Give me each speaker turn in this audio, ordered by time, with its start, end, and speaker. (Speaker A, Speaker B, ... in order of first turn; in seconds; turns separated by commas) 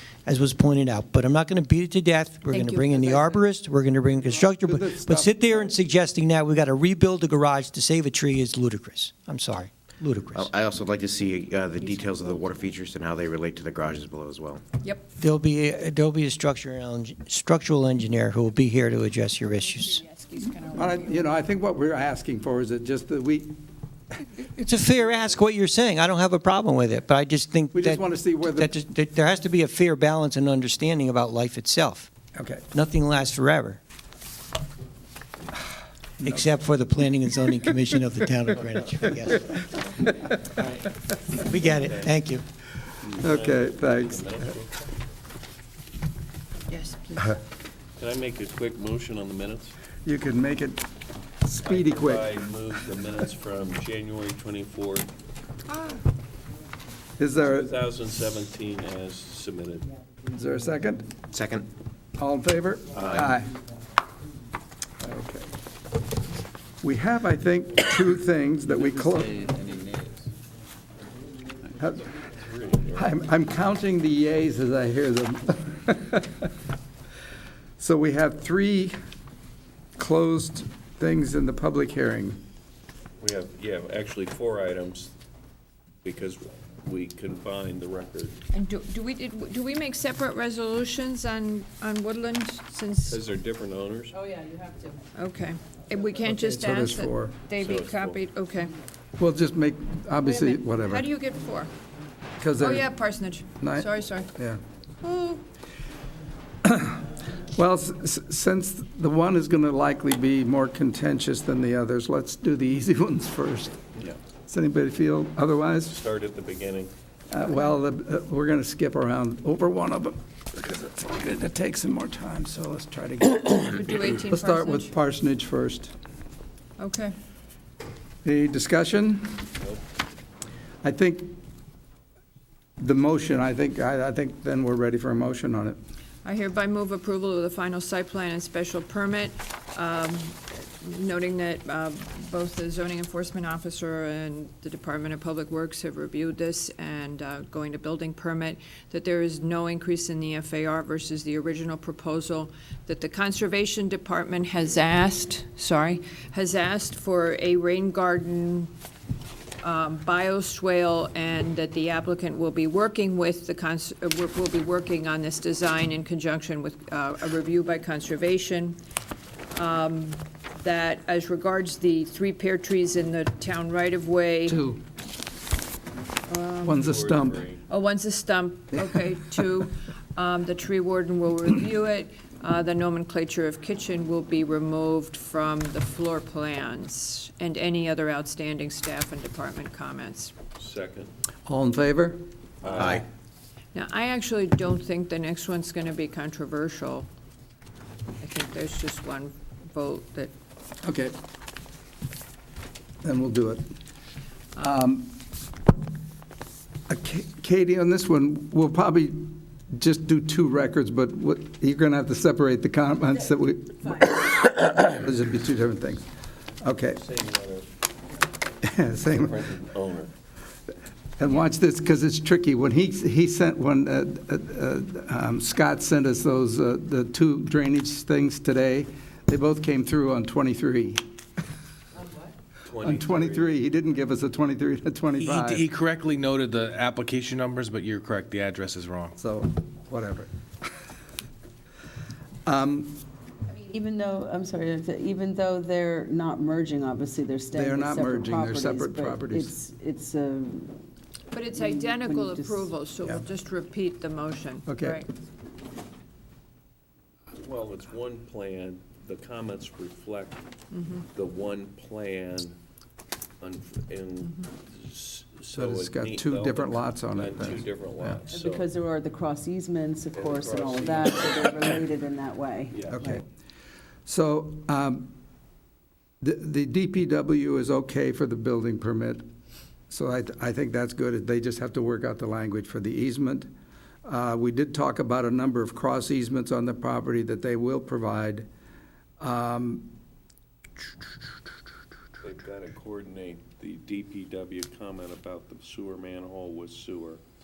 Speaker A: 0.2-10.5, Speaker B: 2.5-3.4, Speaker C: 4.6-5.7, Speaker D: 10.3-14.6, Speaker B: 11.8-12.4, Speaker B: 14.8-15.1, Speaker A: 15.2-20.0, Speaker B: 19.7-21.4, Speaker C: 20.7-23.6, Speaker A: 24.4-32.1, Speaker C: 27.7-28.7, Speaker C: 32.3-32.6, Speaker A: 32.7-33.8, Speaker A: 36.2-39.7, Speaker A: 41.4-42.4, Speaker E: 41.5-42.2, Speaker C: 43.1-44.2, Speaker E: 43.1-44.8, Speaker B: 46.7-47.4, Speaker E: 48.0-49.7, Speaker C: 50.0-50.9, Speaker C: 51.4-52.3, Speaker E: 51.6-55.1, Speaker C: 57.2-57.7, Speaker E: 57.3-59.9, Speaker C: 60.3-61.1, Speaker D: 61.3-61.7, Speaker C: 62.2-63.5, Speaker D: 63.0-63.3, Speaker C: 65.0-65.5, Speaker C: 66.8-69.4, Speaker F: 68.8-69.1, Speaker D: 69.5-70.1, Speaker C: 71.8-72.0, Speaker E: 72.2-73.1, Speaker C: 73.0-76.5, Speaker C: 77.8-79.0, Speaker C: 80.0-82.4, Speaker E: 83.2-85.1, Speaker E: 86.0-88.3, Speaker B: 88.5-93.2, Speaker E: 93.1-94.4, Speaker G: 94.5-94.9, Speaker B: 95.1-98.7, Speaker C: 96.2-97.3, Speaker E: 97.6-98.2, Speaker C: 99.2-101.1, Speaker B: 100.3-101.7, Speaker C: 102.4-103.0, Speaker B: 102.6-104.3, Speaker C: 103.6-104.6, Speaker B: 105.0-105.4, Speaker C: 106.6-113.8, Speaker C: 114.5-116.0, Speaker E: 115.8-116.9, Speaker C: 117.3-125.9, Speaker B: 123.6-124.9, Speaker B: 126.8-127.1, Speaker C: 128.2-129.5, Speaker C: 130.8-131.4, Speaker C: 132.8-135.8, Speaker B: 136.2-158.7, Speaker B: 159.6-168.8, Speaker B: 169.5-174.6, Speaker C: 174.4-174.8, Speaker B: 176.2-176.9, Speaker C: 176.6-177.4, Speaker E: 176.8-177.6, Speaker B: 177.7-190.3, Speaker E: 190.6-191.1, Speaker C: 191.4-192.2, Speaker E: 192.6-193.1, Speaker B: 193.7-197.1, Speaker B: 198.2-200.3, Speaker C: 200.8-201.1, Speaker C: 203.0-203.6, Speaker C: 204.6-205.2, Speaker C: 206.9-216.0, Speaker C: 216.6-217.0, Speaker E: 216.9-217.7, Speaker C: 218.6-219.4, Speaker E: 219.1-220.1, Speaker C: 221.2-231.0, Speaker E: 232.6-233.6, Speaker C: 232.8-235.7, Speaker F: 235.1-239.2, Speaker C: 239.2-240.3, Speaker C: 242.4-243.0, Speaker G: 243.7-250.8, Speaker C: 247.5-249.6, Speaker B: 251.3-255.1, Speaker G: 251.5-252.7, Speaker C: 254.7-255.0, Speaker E: 257.4-260.4, Speaker B: 260.7-261.0, Speaker E: 261.1-262.6, Speaker E: 263.4-268.7, Speaker C: 265.5-268.2, Speaker G: 268.3-273.2, Speaker E: 270.1-271.8, Speaker E: 272.7-273.1, Speaker C: 272.9-273.2, Speaker C: 274.1-275.1, Speaker C: 276.2-279.2, Speaker C: 279.9-283.5, Speaker C: 284.0-288.5, Speaker C: 289.2-289.9, Speaker E: 292.2-297.2